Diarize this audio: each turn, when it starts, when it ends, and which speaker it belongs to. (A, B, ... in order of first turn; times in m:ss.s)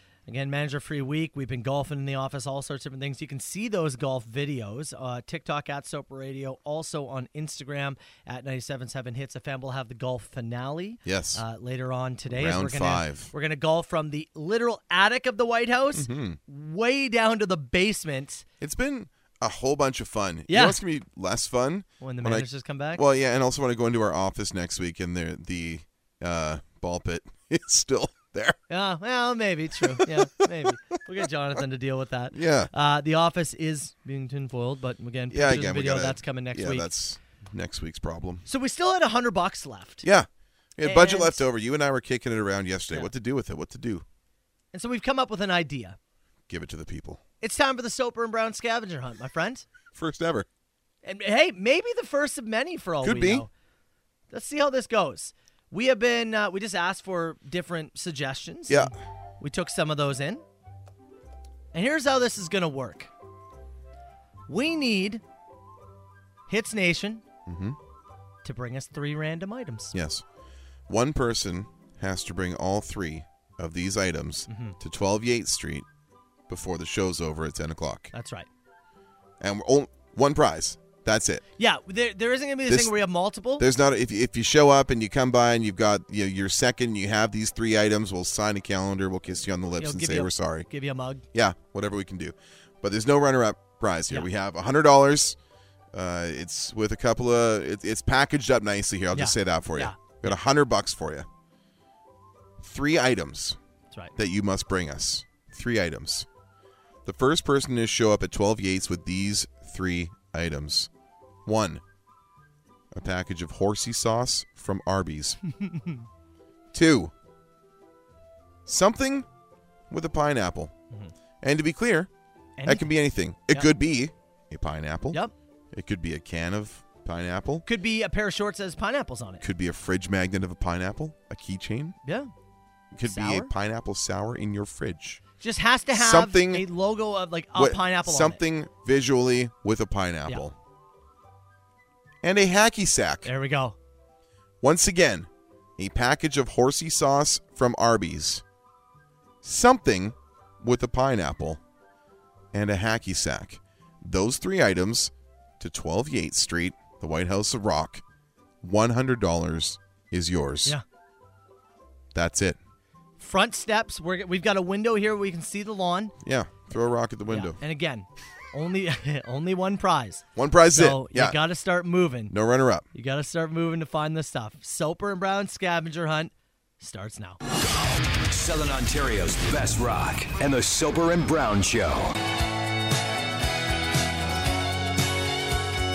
0:00.3-0:18.4 A
0:11.0-0:11.4 B
0:12.3-0:13.3 B
0:15.9-0:16.4 B
0:18.6-0:28.6 B
0:20.5-0:20.8 A
0:22.0-0:23.0 A
0:28.7-0:36.9 A
0:29.9-0:30.5 B
0:32.3-0:32.7 B
0:35.3-0:38.4 B
0:38.5-0:40.1 A
0:40.0-0:44.0 B
0:40.8-0:41.4 A
0:44.7-0:46.0 A
0:46.5-0:47.2 B
0:47.4-0:49.7 A
0:49.9-0:50.5 B
0:51.0-0:53.5 A
0:53.0-0:53.5 B
0:54.3-1:00.4 A
0:58.7-0:58.9 B
1:01.7-1:03.1 A
1:04.5-1:05.2 A
1:06.5-1:07.2 A
1:07.5-1:07.8 B
1:08.4-1:10.0 A
1:09.9-1:10.2 B
1:10.9-1:15.9 B
1:14.5-1:14.8 A
1:16.5-1:18.1 B
1:18.1-1:18.5 A
1:19.4-1:21.4 B
1:21.6-1:23.6 A
1:22.7-1:23.0 B
1:23.6-1:30.7 B
1:29.8-1:31.2 A
1:31.3-1:35.4 B
1:35.9-1:41.3 B
1:39.1-1:40.3 A
1:42.6-1:43.6 B
1:44.2-1:46.3 B
1:47.0-1:50.9 B
1:51.4-1:51.8 B
1:52.9-1:55.4 B
1:55.5-1:56.1 A
1:56.7-1:57.1 B
1:58.7-1:59.3 B
1:59.9-2:00.7 B
2:01.4-2:02.1 B
2:02.6-2:02.9 A
2:02.6-2:05.2 B
2:05.7-2:07.6 B
2:07.7-2:09.4 A
2:09.4-2:12.0 B
2:12.0-2:12.3 A
2:12.9-2:15.2 B
2:13.1-2:13.5 A
2:15.4-2:18.4 A
2:15.9-2:16.7 B
2:17.6-2:20.6 B
2:22.2-2:23.3 B
2:23.2-2:23.8 A
2:24.6-2:28.4 B
2:29.4-2:31.6 B
2:32.5-2:38.0 B
2:38.6-2:40.8 B
2:42.1-2:42.6 B
2:43.2-2:46.1 A
2:46.2-2:47.6 B
2:47.3-2:52.3 A
2:50.4-2:51.4 B
2:52.3-2:52.9 B
2:52.9-2:57.4 A
2:58.3-3:02.1 C